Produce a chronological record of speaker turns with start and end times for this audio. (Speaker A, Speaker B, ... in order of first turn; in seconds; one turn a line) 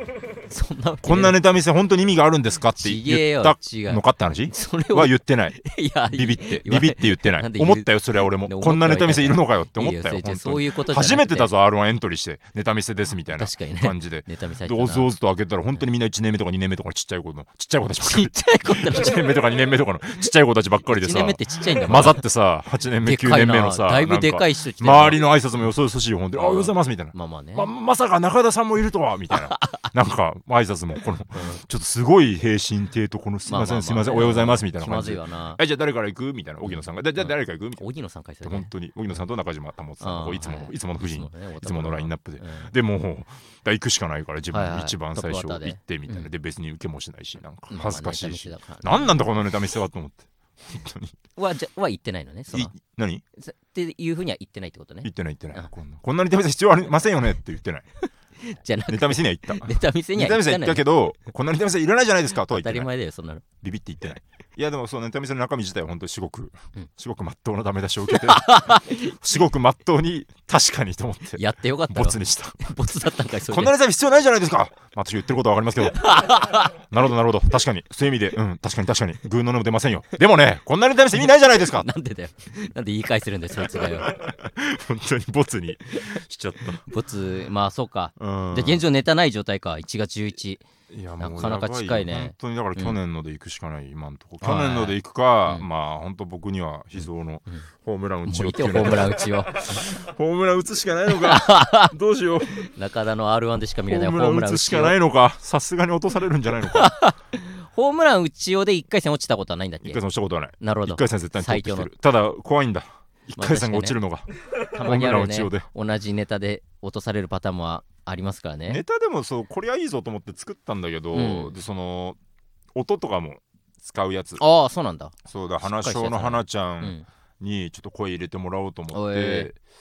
Speaker A: 0.4-1.4
Speaker B: 1.0-5.6
Speaker A: 2.8-11.5
Speaker B: 6.1-37.8
Speaker A: 13.3-15.1
Speaker A: 18.0-19.4
Speaker A: 20.9-22.2
Speaker A: 23.0-25.3
Speaker A: 26.4-27.7
Speaker A: 29.3-29.9
Speaker A: 31.3-31.6
Speaker A: 33.5-35.6
Speaker A: 36.6-38.7
Speaker B: 38.4-51.2
Speaker A: 40.0-42.7
Speaker A: 44.5-46.3
Speaker A: 47.7-49.2
Speaker A: 51.4-52.7
Speaker B: 52.5-53.2
Speaker A: 53.4-55.7
Speaker B: 55.0-57.9
Speaker A: 58.0-60.9
Speaker B: 58.9-62.9
Speaker A: 62.5-63.4
Speaker B: 63.6-72.7
Speaker A: 68.1-69.2
Speaker A: 71.4-73.8
Speaker B: 73.4-76.2
Speaker A: 75.9-76.8
Speaker B: 76.8-81.9
Speaker A: 81.2-84.1
Speaker B: 83.5-86.8
Speaker A: 86.8-90.6
Speaker B: 88.2-88.8
Speaker B: 90.9-102.7
Speaker A: 91.2-93.0
Speaker A: 94.4-95.7
Speaker A: 97.0-97.7
Speaker A: 98.3-99.9
Speaker A: 101.1-101.9
Speaker A: 102.5-105.0
Speaker B: 103.8-106.9
Speaker A: 106.6-110.0
Speaker B: 109.8-114.3
Speaker A: 110.6-111.9
Speaker A: 113.4-114.0
Speaker A: 114.7-118.8
Speaker B: 114.8-115.7
Speaker B: 118.7-122.2
Speaker A: 121.1-121.6
Speaker B: 122.8-124.4
Speaker A: 124.4-127.1
Speaker B: 125.2-129.6
Speaker A: 128.9-129.5